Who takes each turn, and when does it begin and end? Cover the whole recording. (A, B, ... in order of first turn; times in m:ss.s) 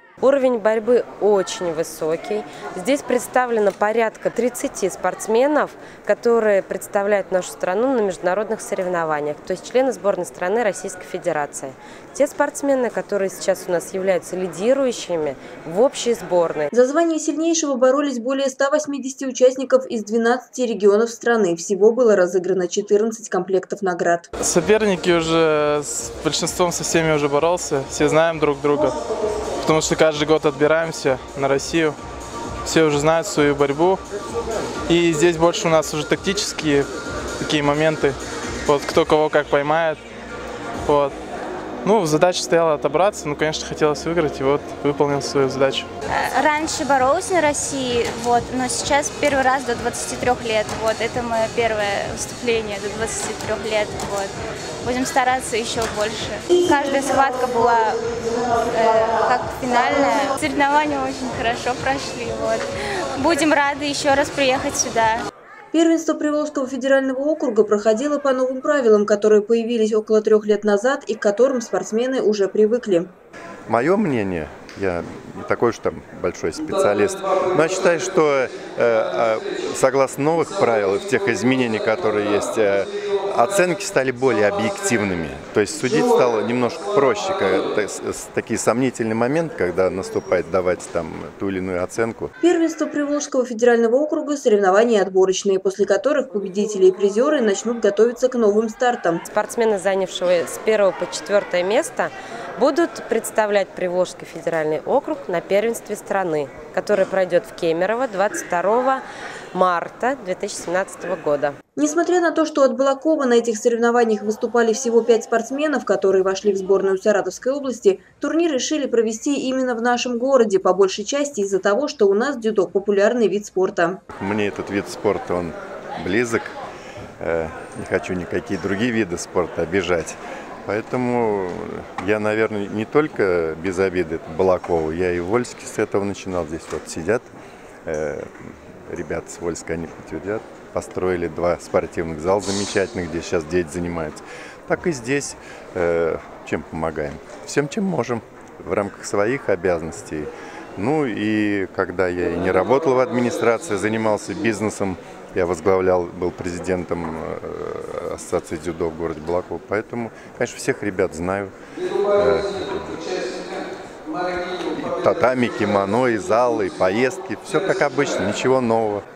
0:00.2-0:16.7 A
0:16.7-0:24.3 B
0:24.4-0:29.0 C
0:29.6-0:32.0 C
0:32.6-0:34.0 C
0:34.9-0:36.9 C
0:37.4-0:40.0 C
0:40.8-0:41.1 C
0:41.8-0:45.9 C
0:46.1-1:05.2 D
1:05.7-1:13.1 B
1:13.7-1:32.3 E
1:32.4-1:39.2 B
1:39.3-1:51.6 A
1:51.8-2:04.0 B
2:04.1-2:06.6 E
2:07.2-2:17.3 E
2:17.8-2:41.5 E
2:42.1-2:43.1 E
2:44.6-2:49.0 E